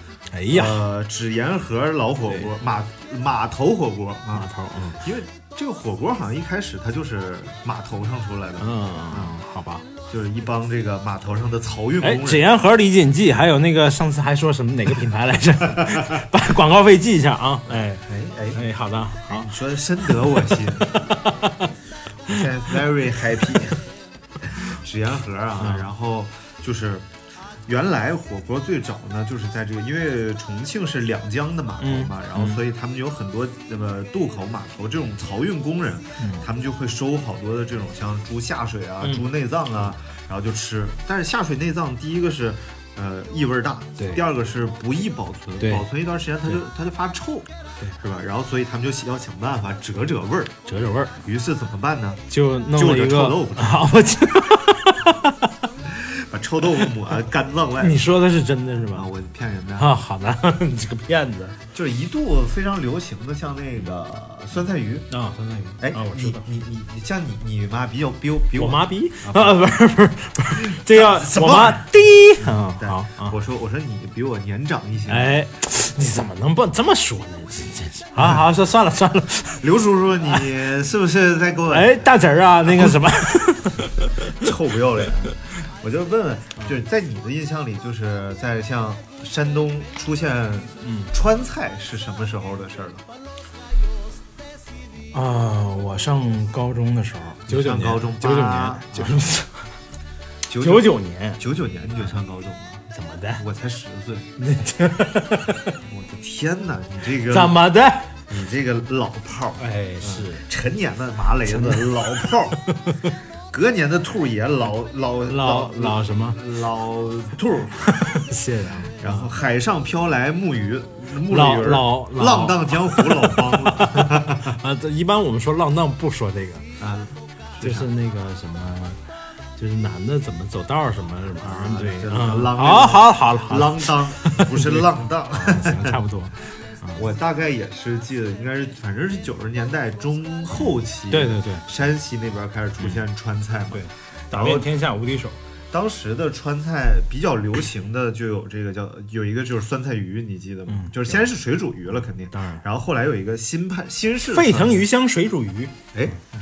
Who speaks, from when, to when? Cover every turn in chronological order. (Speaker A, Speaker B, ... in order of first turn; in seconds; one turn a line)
Speaker A: 0.3-0.8
Speaker B: 0.5-4.5
Speaker A: 4.3-5.0
Speaker B: 5.0-9.3
Speaker A: 8.6-9.8
Speaker B: 10.1-12.5
Speaker A: 12.0-19.5
Speaker B: 18.0-18.6
Speaker B: 19.3-20.9
Speaker A: 20.0-21.7
Speaker B: 22.3-23.8
Speaker B: 24.5-27.1
Speaker A: 25.6-25.9
Speaker B: 27.7-47.5
Speaker A: 31.8-32.6
Speaker A: 36.2-36.5
Speaker A: 39.0-39.9
Speaker A: 44.0-44.2
Speaker A: 45.6-45.9
Speaker B: 48.0-50.5
Speaker A: 50.6-51.1
Speaker B: 51.2-53.9
Speaker A: 52.3-55.5
Speaker B: 55.9-58.0
Speaker A: 57.8-59.1
Speaker B: 58.9-59.9
Speaker A: 59.8-61.6
Speaker B: 61.7-65.1
Speaker A: 65.1-66.4
Speaker B: 65.8-69.7
Speaker A: 68.5-73.4
Speaker B: 70.6-71.9
Speaker B: 72.4-75.4
Speaker A: 75.1-79.6
Speaker B: 78.2-78.4
Speaker B: 79.6-82.1
Speaker A: 81.7-84.3
Speaker B: 82.6-83.0
Speaker B: 84.4-93.0
Speaker A: 90.8-91.1
Speaker A: 95.1-99.7
Speaker B: 97.5-99.2
Speaker B: 100.5-102.8
Speaker A: 100.6-101.4
Speaker A: 102.9-103.4
Speaker B: 103.3-104.3
Speaker A: 104.4-105.7
Speaker B: 105.8-107.6
Speaker A: 107.2-108.1
Speaker B: 108.3-112.6
Speaker A: 109.6-110.4
Speaker A: 111.4-113.1
Speaker B: 113.5-117.9
Speaker A: 115.3-116.4
Speaker A: 117.8-119.3
Speaker B: 119.0-124.6
Speaker A: 121.2-126.7
Speaker B: 126.8-127.9
Speaker A: 127.6-129.0
Speaker A: 129.6-137.1
Speaker B: 131.4-136.0
Speaker B: 136.9-144.7
Speaker A: 141.1-141.7
Speaker A: 143.7-145.4
Speaker B: 145.7-154.8
Speaker A: 150.7-151.3
Speaker A: 152.3-152.6
Speaker A: 154.3-155.8
Speaker B: 155.9-156.2